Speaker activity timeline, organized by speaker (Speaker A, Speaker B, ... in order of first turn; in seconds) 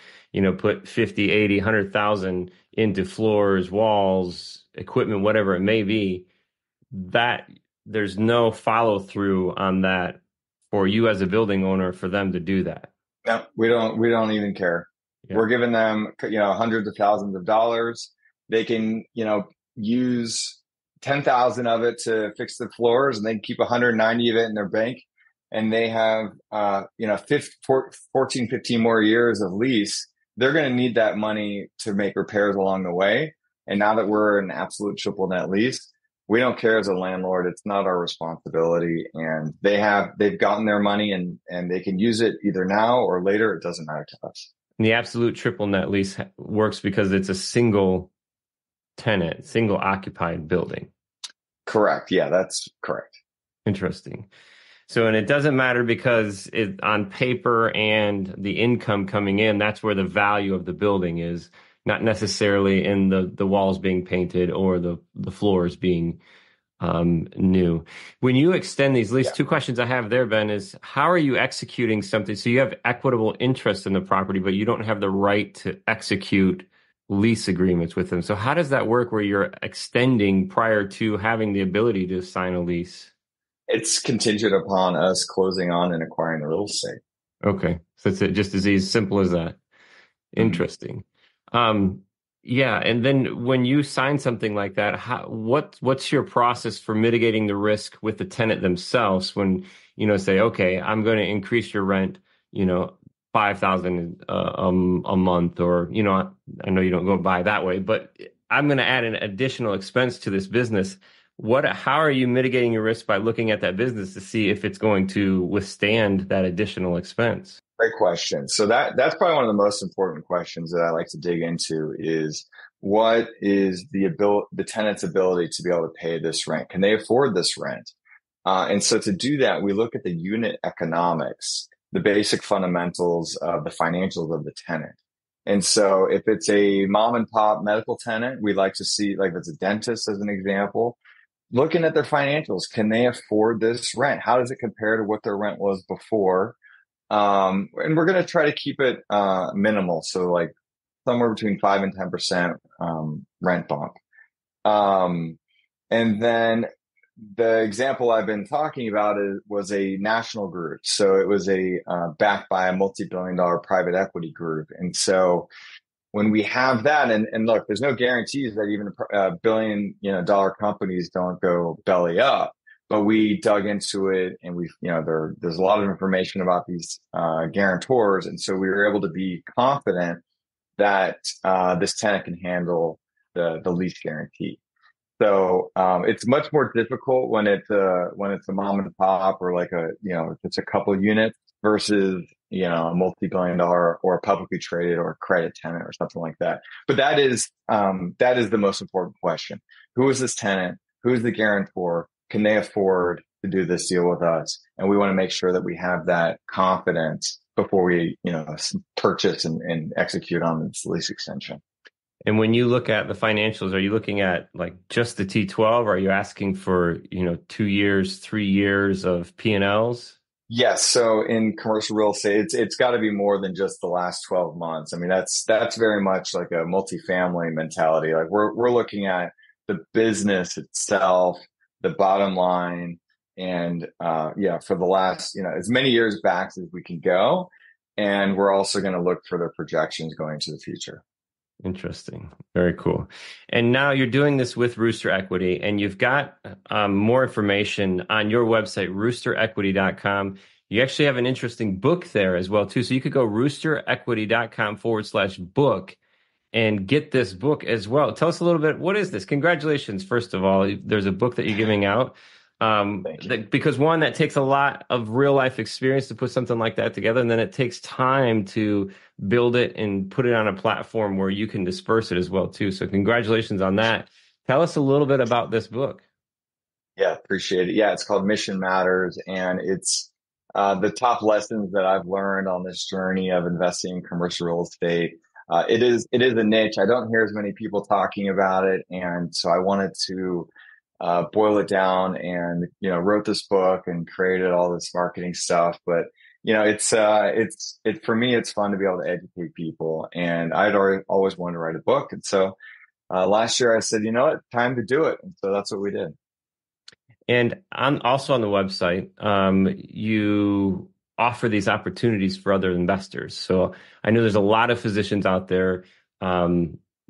Speaker A: 0.3-6.2, 6.9-10.2, 10.7-12.9, 44.8-48.1, 49.0-50.9, 53.6-54.3, 54.9-66.2, 66.8-83.1, 87.4-89.6, 90.3-117.6, 212.2-220.2, 241.6-256.0, 256.5-276.0, 307.3-316.8
Speaker B: 13.2-44.5, 51.6-53.1, 83.7-87.0, 117.8-127.9, 128.4-141.0, 141.5-146.6, 147.1-150.5, 151.1-154.0, 154.6-155.4, 155.9-156.7, 157.2-165.5, 166.1-180.2, 180.8-184.6, 185.2-211.6, 220.5-241.0, 277.0-290.5, 291.0-302.5, 303.1-306.1